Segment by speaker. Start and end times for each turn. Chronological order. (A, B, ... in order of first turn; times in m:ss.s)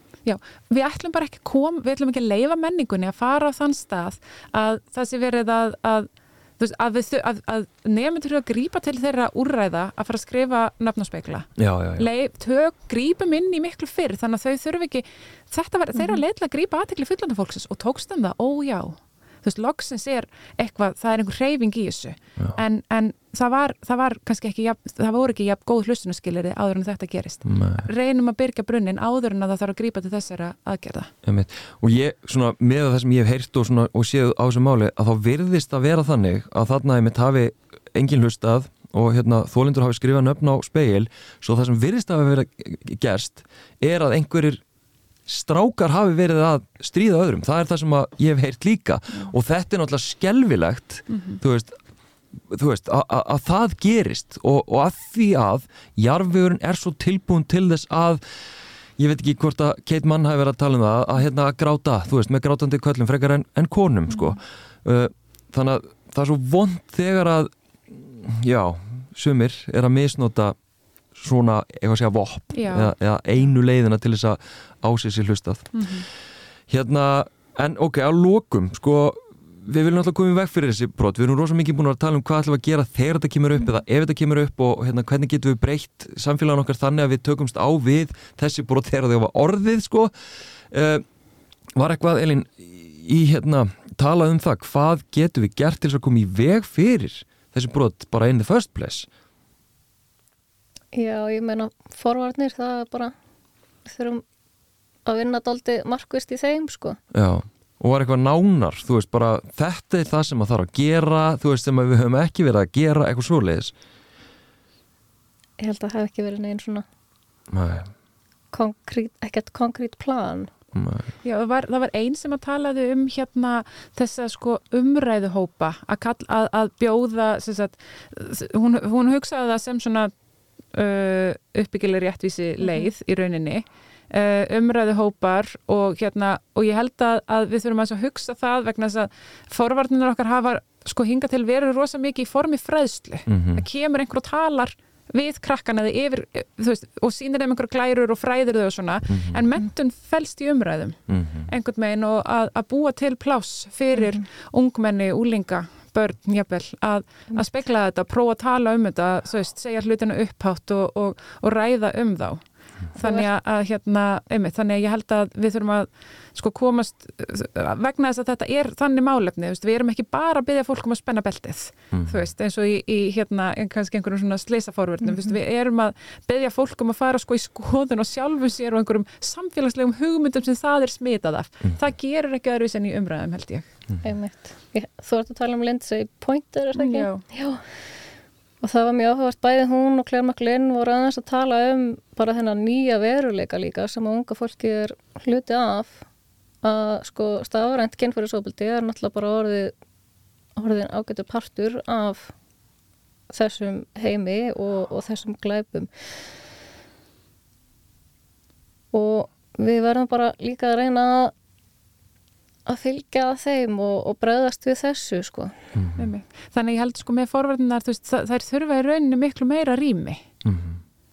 0:00.2-0:31.1 A
0:11.6-0:12.1 B
0:27.4-0:27.9 B
0:31.2-0:44.6 B
0:45.3-0:51.8 B
0:51.1-0:51.4 A
0:52.5-0:58.2 B
0:59.0-1:10.6 B
1:11.1-1:15.8 B
1:12.5-1:12.9 A
1:15.7-1:16.1 A
1:16.7-1:30.1 B
1:30.7-1:31.0 B
1:31.8-1:39.1 B
1:40.9-1:43.1 C
1:43.8-1:44.2 C
1:45.0-1:47.0 C
1:47.1-1:53.7 B
1:55.6-1:56.8 C
1:57.5-1:57.9 B
1:58.5-2:00.5 C
2:00.7-2:01.1 B
2:01.2-2:10.1 A
2:10.7-2:42.4 A
2:23.3-2:23.6 B
2:29.1-2:29.4 B
2:31.1-2:31.5 B
2:42.9-3:03.7 A
2:43.0-2:43.3 C
2:51.9-2:52.2 B
3:04.0-3:07.6 C
3:06.8-3:07.2 A
3:08.6-3:16.0 C
3:16.6-3:19.7 C
3:20.6-3:22.3 C
3:23.3-3:26.1 C
3:28.9-3:31.3 C
3:32.6-3:35.6 C
3:35.7-3:36.1 B
3:36.0-3:40.3 A
3:40.4-3:40.8 B